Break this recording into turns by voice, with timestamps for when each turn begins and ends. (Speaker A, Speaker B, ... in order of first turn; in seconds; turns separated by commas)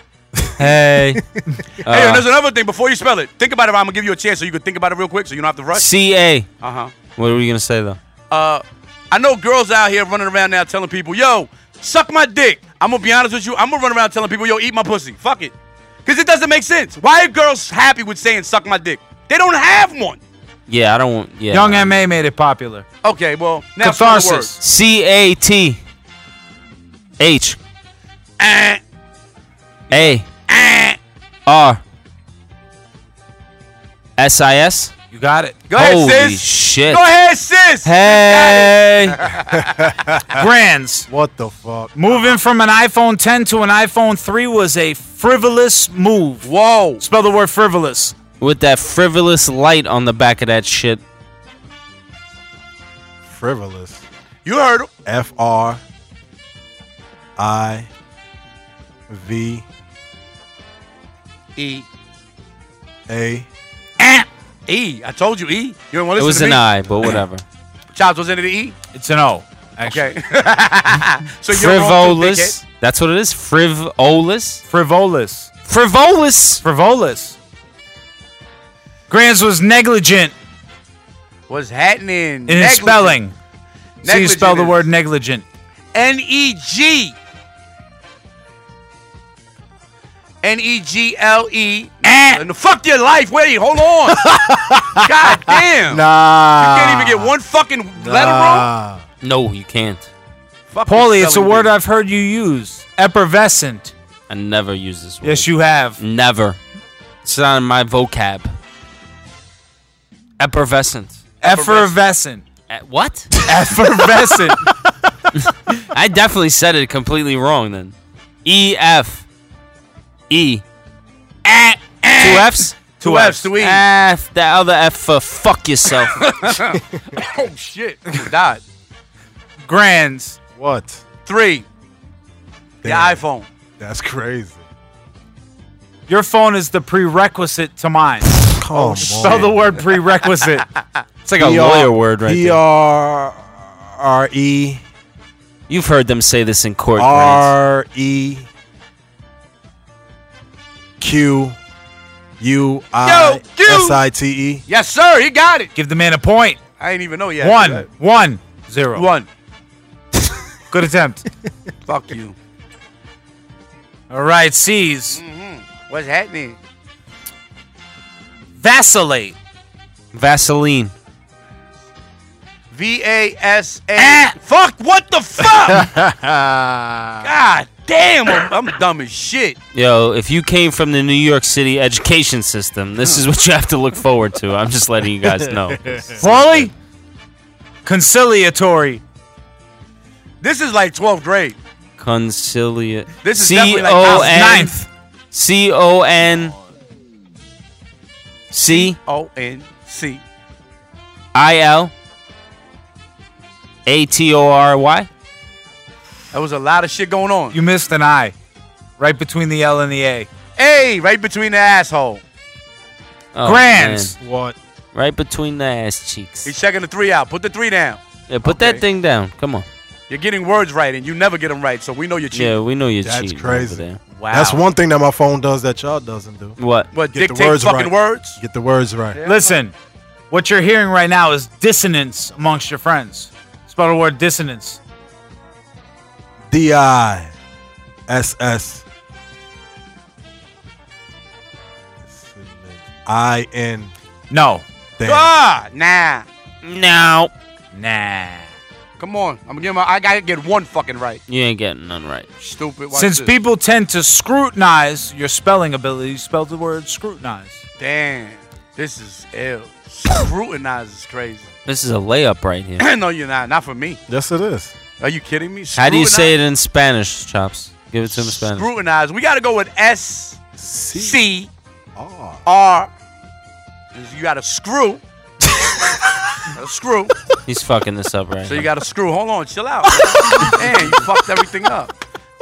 Speaker A: 0.6-1.2, Speaker A: 1.9-2.3, Speaker B: 1.9-5.9, Speaker A: 5.7-6.5, Speaker B: 6.6-6.9, Speaker A: 7.2-8.0, Speaker B: 8.3-15.5, Speaker B: 16.1-20.2, Speaker A: 20.7-21.9, Speaker C: 21.5-22.9, Speaker B: 23.0-24.5, Speaker C: 23.8-24.6, Speaker A: 24.6-25.8, Speaker A: 27.2-27.6, Speaker B: 28.4-28.8, Speaker A: 29.9-30.3, Speaker B: 29.9-31.0, Speaker A: 31.5-31.8, Speaker A: 34.2-34.9, Speaker C: 35.1-35.6, Speaker B: 35.7-39.4, Speaker A: 35.7-37.1, Speaker A: 37.8-39.2, Speaker D: 39.5-40.2, Speaker C: 40.4-41.1, Speaker D: 41.1-42.0, Speaker C: 42.0-48.1, Speaker B: 46.4-47.0, Speaker A: 48.4-51.0, Speaker D: 53.3-54.0, Speaker B: 54.5-54.9, Speaker D: 55.0-55.8, Speaker D: 57.4-57.9, Speaker D: 59.1-59.6, Speaker B: 61.6-61.9, Speaker D: 63.1-63.5, Speaker C: 64.0-64.3, Speaker B: 64.7-66.6, Speaker A: 66.2-67.4, Speaker B: 67.9-68.8, Speaker C: 68.9-70.2, Speaker B: 69.9-72.6, Speaker A: 71.5-74.6, Speaker C: 74.7-75.5, Speaker A: 75.7-76.6, Speaker C: 76.6-77.4, Speaker C: 79.1-80.3, Speaker B: 81.5-83.2, Speaker C: 82.5-83.3, Speaker B: 84.0-84.8, Speaker C: 84.0-85.5, Speaker B: 85.9-87.2, Speaker B: 90.4-94.2, Speaker C: 92.0-92.4, Speaker D: 94.1-97.3, Speaker B: 95.0-98.7, Speaker D: 98.0-99.0, Speaker A: 99.2-100.1, Speaker B: 100.7-101.7, Speaker C: 100.9-103.9, Speaker A: 104.3-106.6, Speaker C: 105.2-106.0, Speaker A: 107.2-108.5, Speaker A: 110.4-111.2, Speaker C: 111.4-112.4, Speaker B: 111.4-112.0, Speaker A: 112.7-113.3, Speaker C: 113.5-114.7, Speaker A: 115.9-117.9, Speaker A: 118.5-119.2, Speaker A: 120.3-120.6, Speaker C: 121.5-122.0, Speaker B: 122.0-123.8, Speaker A: 122.2-122.8, Speaker C: 123.0-123.5, Speaker A: 123.5-126.2, Speaker B: 126.2-128.6, Speaker C: 129.6-130.4, Speaker D: 130.6-131.0, Speaker B: 131.3-131.7, Speaker D: 132.8-133.2, Speaker B: 132.8-133.5, Speaker D: 133.8-134.6, Speaker C: 136.1-140.7, Speaker D: 138.6-139.7, Speaker B: 138.8-139.5, Speaker C: 141.3-141.6, Speaker A: 141.4-142.6, Speaker D: 141.4-144.8, Speaker A: 145.7-147.5, Speaker D: 147.0-148.5, Speaker D: 151.0-151.6, Speaker D: 152.4-154.6, Speaker B: 153.0-154.0, Speaker B: 154.7-155.7, Speaker C: 155.8-156.6, Speaker B: 156.8-157.9, Speaker C: 157.4-159.1, Speaker B: 158.9-159.3, Speaker C: 160.7-161.2, Speaker B: 161.8-162.3, Speaker C: 164.1-165.2, Speaker B: 165.1-166.6, Speaker C: 168.6-169.3, Speaker A: 170.1-170.9, Speaker B: 172.7-175.9, Speaker C: 174.0-174.3, Speaker D: 175.7-177.3, Speaker B: 177.2-179.6, Speaker A: 179.8-186.7, Speaker D: 185.2-186.4, Speaker C: 186.2-186.7, Speaker C: 187.8-189.0, Speaker B: 190.4-191.6, Speaker A: 192.0-194.8, Speaker B: 193.2-194.7, Speaker C: 194.1-194.9, Speaker A: 195.3-196.6, Speaker A: 198.5-199.0, Speaker B: 198.7-200.2, Speaker A: 201.3-201.9, Speaker A: 203.9-205.1, Speaker B: 206.3-207.6, Speaker C: 207.5-208.3, Speaker C: 209.0-210.3, Speaker B: 210.6-212.2, Speaker A: 213.3-214.2, Speaker C: 213.4-214.2, Speaker D: 214.2-214.6, Speaker A: 214.9-216.5, Speaker B: 216.4-218.8, Speaker A: 218.3-219.7, Speaker B: 220.1-222.6, Speaker A: 222.3-224.0, Speaker D: 223.0-226.6, Speaker B: 224.2-224.6, Speaker A: 226.6-226.9, Speaker B: 226.9-228.4, Speaker D: 227.1-229.2, Speaker B: 229.2-229.6, Speaker C: 229.2-229.7, Speaker C: 230.3-234.8, Speaker D: 236.5-237.3, Speaker D: 238.1-238.8, Speaker D: 242.1-243.9, Speaker C: 244.3-244.6, Speaker D: 245.0-245.3, Speaker B: 245.0-246.3, Speaker A: 246.6-247.3, Speaker C: 247.7-248.5, Speaker B: 249.0-251.2, Speaker A: 251.3-252.3, Speaker B: 252.4-253.3, Speaker C: 252.9-257.6, Speaker B: 257.8-261.5, Speaker A: 261.7-262.9, Speaker B: 262.8-264.0, Speaker D: 264.1-264.7, Speaker B: 265.0-266.3, Speaker A: 265.8-268.7, Speaker B: 268.1-270.4, Speaker D: 270.6-271.2, Speaker B: 270.9-271.5, Speaker D: 271.9-272.4, Speaker B: 272.4-272.9, Speaker B: 273.9-275.0, Speaker B: 276.5-277.1, Speaker A: 277.5-278.7, Speaker B: 278.5-281.9, Speaker D: 280.2-280.9